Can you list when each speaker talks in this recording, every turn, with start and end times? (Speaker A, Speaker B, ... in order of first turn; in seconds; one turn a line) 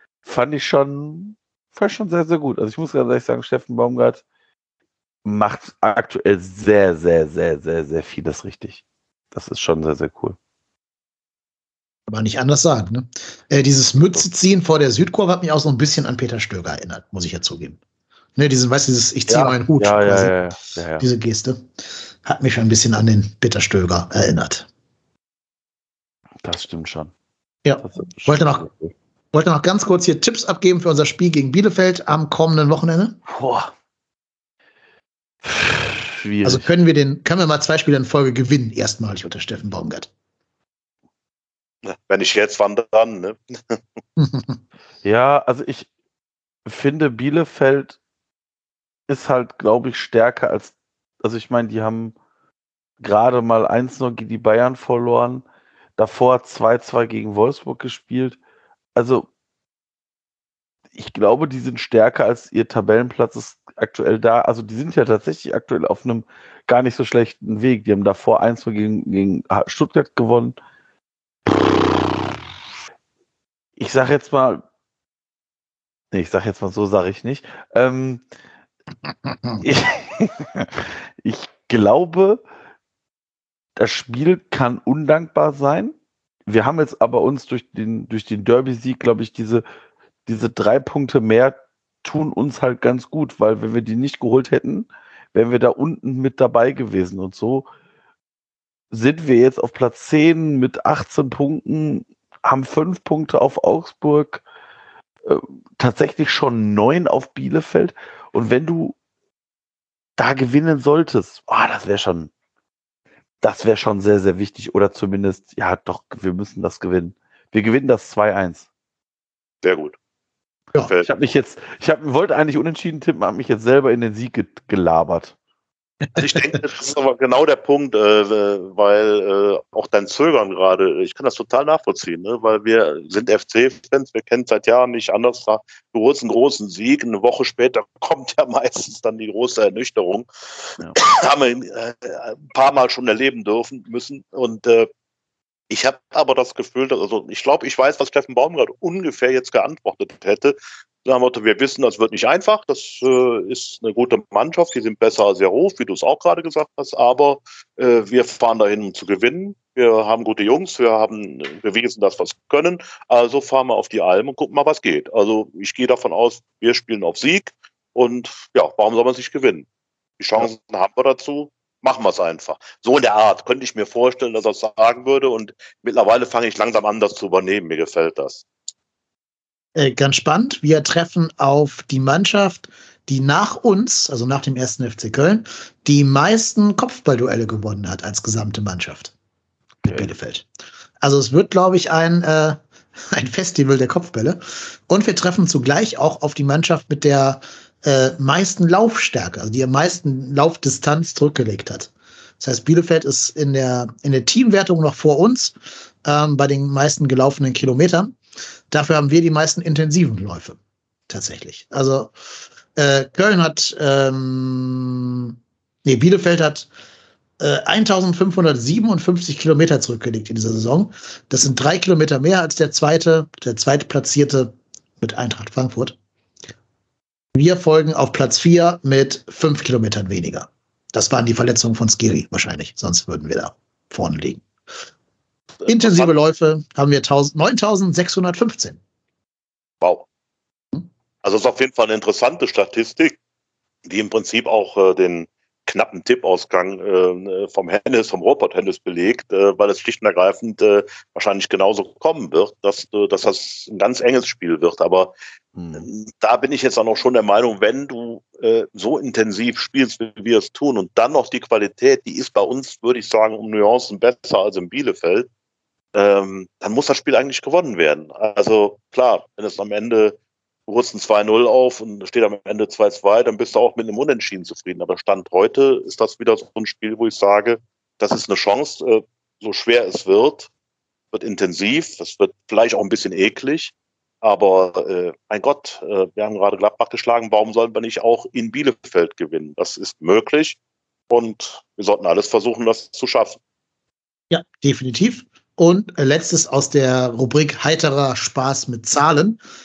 Speaker A: 0.2-4.2
Speaker A: 5.2-10.4
Speaker B: 12.1-17.8
Speaker B: 18.4-20.4
Speaker A: 19.3-21.1
Speaker B: 21.0-21.7
Speaker B: 22.2-24.7
Speaker A: 26.4-27.1
Speaker B: 27.6-28.7
Speaker A: 27.8-28.9
Speaker B: 29.3-33.2
Speaker A: 33.3-33.7
Speaker A: 35.4-36.6
Speaker B: 36.4-40.1
Speaker C: 41.9-43.8
Speaker B: 44.2-44.6
Speaker A: 45.0-45.9
Speaker A: 46.6-48.0
Speaker A: 49.1-52.1
Speaker A: 53.0-55.5
Speaker A: 56.0-58.4
Speaker A: 59.0-59.3
Speaker A: 61.0-70.5
Speaker A: 71.5-72.1
Speaker A: 73.8-74.6
Speaker A: 76.1-78.2
Speaker B: 79.3-79.6
Speaker A: 79.6-82.4
Speaker A: 83.8-85.9
Speaker A: 86.5-89.6
Speaker A: 90.3-97.7
Speaker A: 98.9-104.4
Speaker A: 105.2-109.0
Speaker A: 110.2-112.3
Speaker A: 113.4-118.7
Speaker C: 119.6-120.0
Speaker C: 120.8-121.1
Speaker A: 121.0-125.3
Speaker C: 126.2-140.3
Speaker C: 140.9-144.9
Speaker C: 145.7-169.7
Speaker C: 170.2-178.4
Speaker B: 179.8-189.1
Speaker B: 189.8-190.5
Speaker B: 191.0-192.6
Speaker B: 193.1-208.2
Speaker B: 208.7-210.6
Speaker B: 211.1-212.1
Speaker B: 212.7-216.7
Speaker B: 217.4-226.0
Speaker B: 227.3-234.4
Speaker C: 235.6-236.1
Speaker B: 235.7-238.8
Speaker C: 239.8-240.1
Speaker C: 241.2-243.2
Speaker C: 243.8-255.1
Speaker A: 255.6-255.9
Speaker C: 255.8-265.3
Speaker C: 265.9-280.5
Speaker C: 281.1-290.6
Speaker C: 291.1-293.4
Speaker B: 294.3-299.4